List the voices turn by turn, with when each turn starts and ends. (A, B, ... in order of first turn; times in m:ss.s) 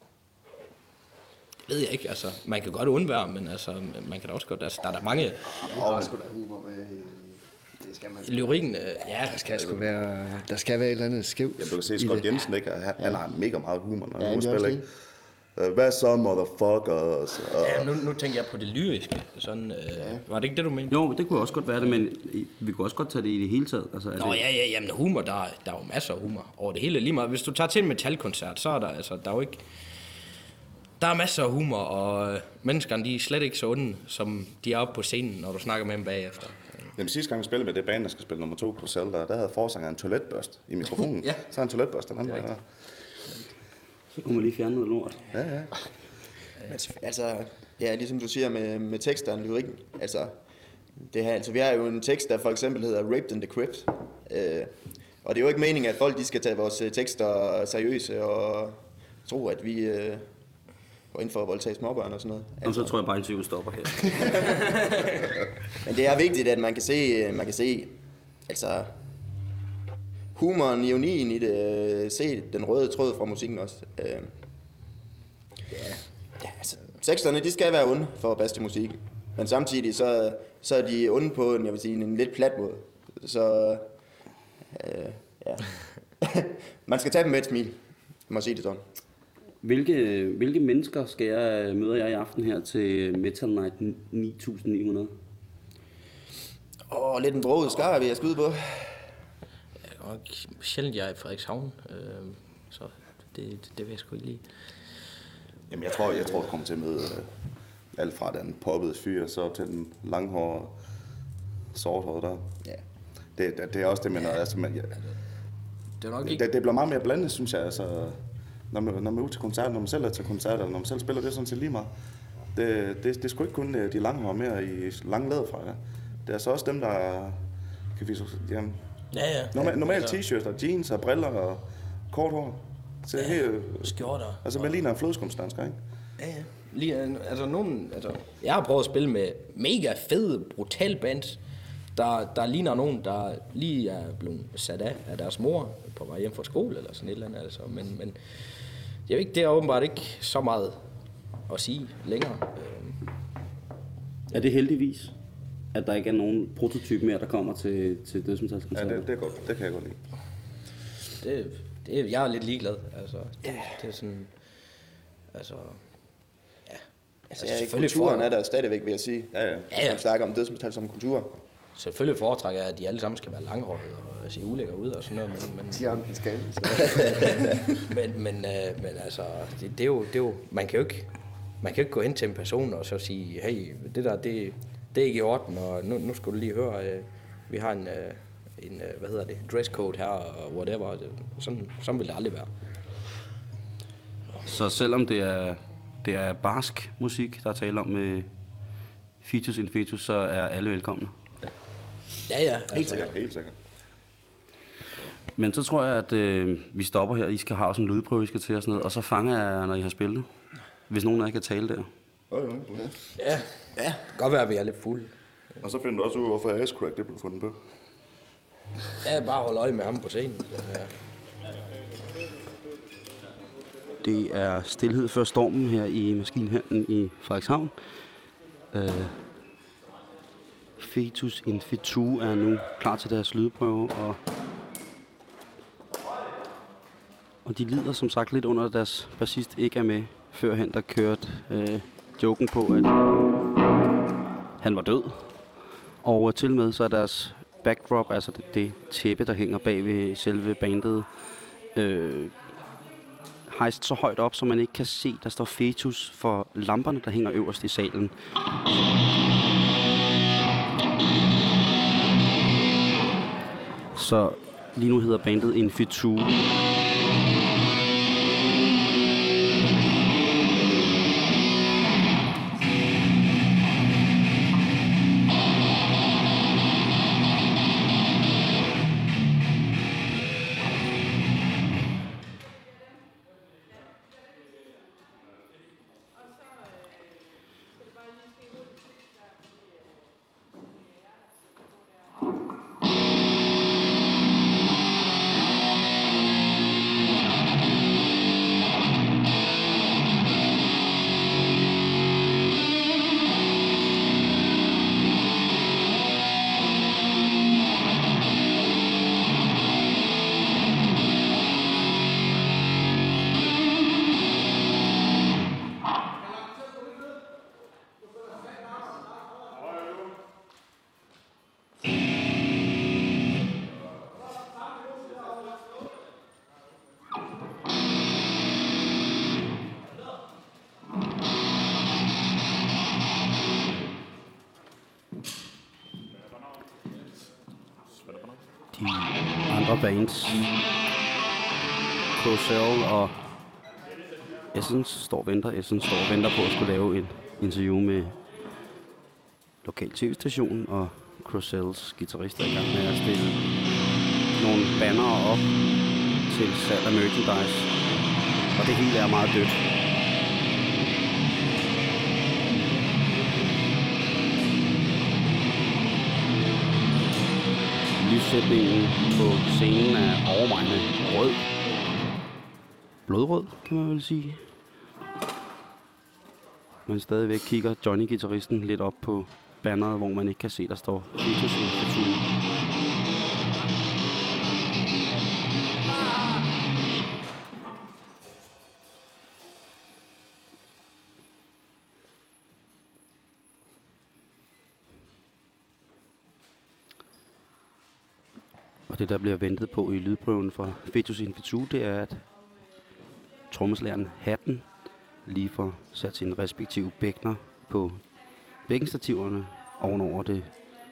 0:01.7-0:05.6 A
0:05.6-0:08.5 B
0:05.7-0:06.1 C
0:08.2-0:09.4 A
0:09.3-0:12.3 B
0:11.6-0:14.8 C
0:14.2-0:14.8 B
0:15.6-0:17.9 C
0:17.6-0:21.0 A
0:20.9-0:24.4 D
0:24.2-0:30.2 A
0:31.0-0:36.9 A
0:36.9-0:42.6 C
0:44.2-0:45.2 D
0:45.3-0:45.7 C
0:46.7-0:50.4 E
0:51.0-1:00.3 E
1:01.1-1:03.0 E
1:02.6-1:04.5 D
1:04.1-1:04.9 E
1:05.8-1:07.9 E
1:08.5-1:08.9 E
1:10.3-1:14.3 E
1:15.7-1:16.0 A
1:16.4-1:23.9 E
1:24.7-1:28.8 E
1:29.6-1:35.1 D
1:36.9-1:39.1 E
1:39.9-1:44.7 A
1:45.7-1:47.3 C
1:47.9-1:50.8 C
1:51.7-1:52.5 C
1:53.3-1:55.0 C
1:56.0-1:56.4 A
1:56.2-1:58.2 C
1:58.7-2:01.9 C
2:02.5-2:07.4 C
2:07.9-2:08.8 C
2:09.1-2:10.2 A
2:09.5-2:15.8 C
2:13.2-2:14.7 A
2:16.2-2:21.4 A
2:21.9-2:30.8 A
2:31.4-2:33.0 A
2:34.3-2:35.1 D
2:35.7-2:39.1 D
2:38.7-2:40.0 C
2:41.2-2:44.8 A
2:45.3-2:48.3 A
2:47.3-2:51.4 E
2:49.3-2:49.7 C
2:49.7-2:50.0 A
2:51.8-2:56.1 A
2:55.7-2:57.6 B
2:56.7-3:12.5 A
3:14.4-3:18.3 D
3:19.2-3:21.1 D
3:22.3-3:23.1 A
3:22.7-3:23.5 C
3:25.4-3:30.3 D
3:30.9-3:31.9 D
3:32.3-3:32.9 C
3:33.2-3:35.1 A
3:35.6-3:37.6 C
3:39.0-3:40.9 A
3:44.0-3:47.8 D
3:48.7-3:49.2 D
3:50.8-3:54.2 D
3:57.4-4:03.2 D
4:04.6-4:12.4 D
4:13.4-4:18.6 D
4:23.9-4:26.4 D
5:38.7-5:40.5 D
5:42.1-5:43.2 D
5:44.5-5:48.2 D
5:49.6-5:53.5 D
5:54.3-5:55.6 D
5:56.2-5:57.7 D
5:58.5-5:59.7 D
6:08.0-6:11.5 D
6:13.0-6:14.5 D
6:16.8-6:22.2 D
6:38.9-6:42.2 D
6:43.5-6:44.7 D
6:45.2-6:48.0 D
6:48.6-6:50.5 D